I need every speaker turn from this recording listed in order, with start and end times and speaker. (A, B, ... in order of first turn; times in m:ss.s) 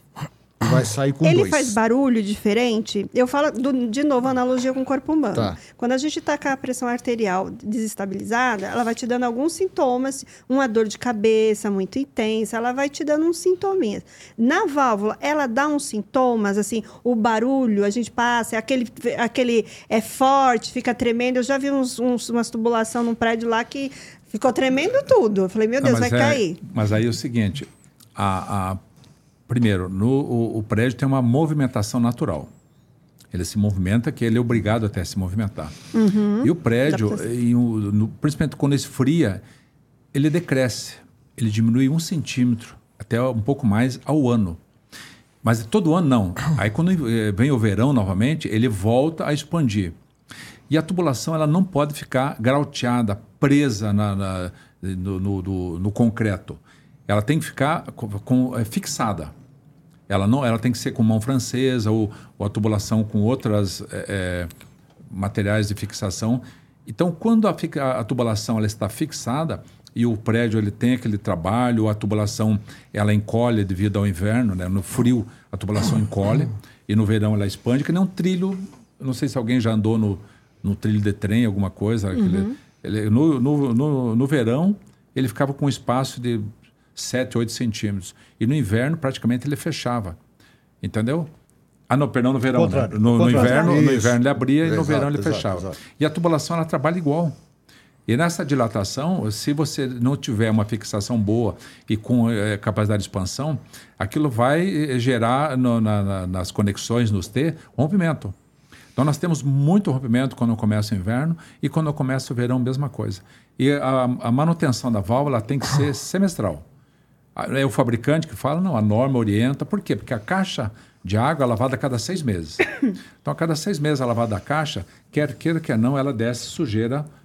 0:00.6-0:01.8 A
0:01.2-0:26.6 B
0:25.8-0:28.8 C
0:29.5-0:32.5 C
0:33.3-0:35.7 C
0:35.9-0:37.2 B
0:36.4-0:39.4 C
0:40.1-0:44.6 C
0:45.4-0:50.0 C
0:50.7-0:59.3 C
1:00.1-1:04.5 C
1:05.1-1:30.2 C
1:22.2-1:22.5 B
1:30.8-1:31.3 C
1:31.9-1:37.4 C
1:32.5-1:35.8 A
1:33.3-1:33.8 B
1:38.1-1:48.4 C
1:49.0-1:56.6 C
1:57.4-2:07.1 C